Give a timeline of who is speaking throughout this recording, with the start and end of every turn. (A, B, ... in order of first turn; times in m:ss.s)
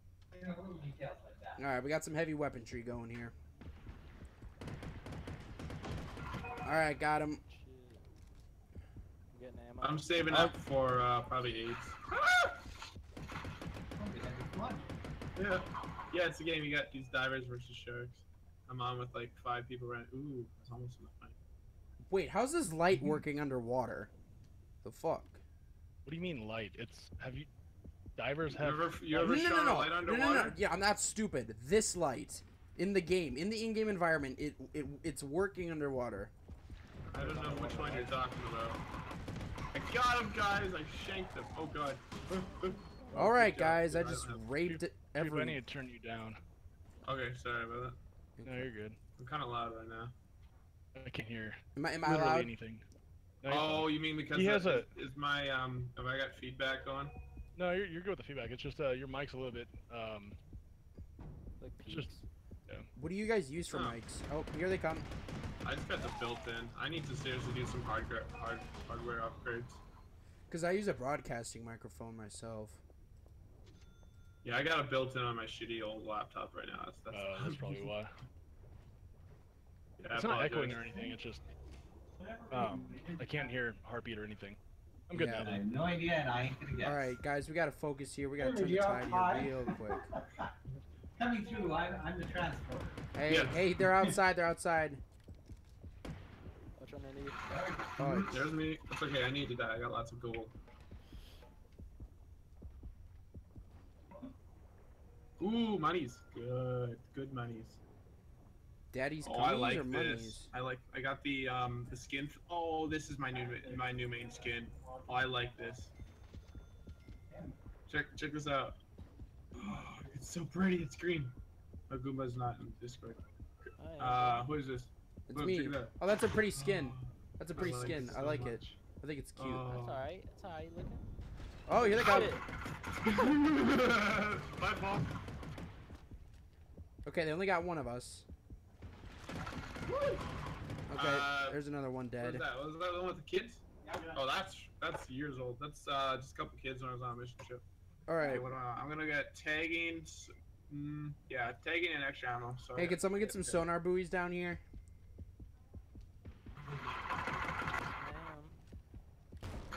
0:00.3-0:01.6 A
0:01.6-0:03.3 B
0:06.6-0:07.4 B
0:07.4-0:08.1 C
0:09.3-0:10.1 C
0:09.8-0:12.5 D
0:14.0-0:15.0 A
0:15.4-0:21.4 D
0:22.1-0:24.1 B
0:24.8-0:25.4 B
0:26.0-0:27.5 E
0:28.2-0:29.3 E
0:28.5-0:30.6 D
0:29.2-0:36.3 B
0:37.1-0:38.8 D
0:37.2-0:38.2 C
0:39.7-0:44.5 D
0:43.1-0:45.6 B
0:44.6-0:46.4 E
0:47.0-0:48.0 D
0:48.4-0:48.7 B
0:48.4-0:49.0 E
0:49.2-0:50.1 D
0:50.9-0:52.8 E
0:51.8-0:52.5 B
0:53.4-0:54.9 E
0:53.4-0:57.2 D
0:57.6-1:00.4 E
1:01.6-1:02.2 C
1:01.8-1:02.1 E
1:03.0-1:05.1 B
1:03.7-1:04.0 D
1:05.6-1:09.8 D
1:10.5-1:12.8 B
1:14.4-1:17.9 D
1:17.1-1:18.1 E
1:20.0-1:21.0 D
1:20.0-1:21.4 E
1:22.2-1:23.5 A
1:22.5-1:25.6 E
1:25.1-1:25.5 B
1:25.4-1:27.2 A
1:26.8-1:30.0 B
1:28.4-1:30.5 A
1:31.2-1:33.0 A
1:33.2-1:35.0 B
1:33.3-1:33.6 D
1:33.8-1:34.2 A
1:36.8-1:37.4 C
1:37.5-1:38.4 A
1:38.0-1:38.5 B
1:38.3-1:40.5 D
1:45.4-1:47.8 D
1:48.9-1:50.5 B
1:49.2-1:55.9 D
1:53.3-1:55.3 A
1:57.9-1:58.8 D
1:59.6-2:01.3 D
2:01.9-2:03.2 D
2:03.8-2:04.5 C
2:04.0-2:05.9 D
2:05.3-2:09.7 B
2:06.5-2:08.8 D
2:09.4-2:10.0 D
2:09.7-2:11.1 C
2:11.7-2:12.4 B
2:11.7-2:12.4 C
2:12.0-2:12.3 D
2:12.9-2:15.2 D
2:17.0-2:18.2 B
2:19.9-2:20.2 D
2:20.9-2:22.4 B
2:21.0-2:21.6 D
2:22.2-2:27.6 D
2:23.8-2:24.2 A
2:28.1-2:28.5 B
2:28.2-2:33.7 D
2:32.7-2:34.6 B
2:37.7-2:38.6 C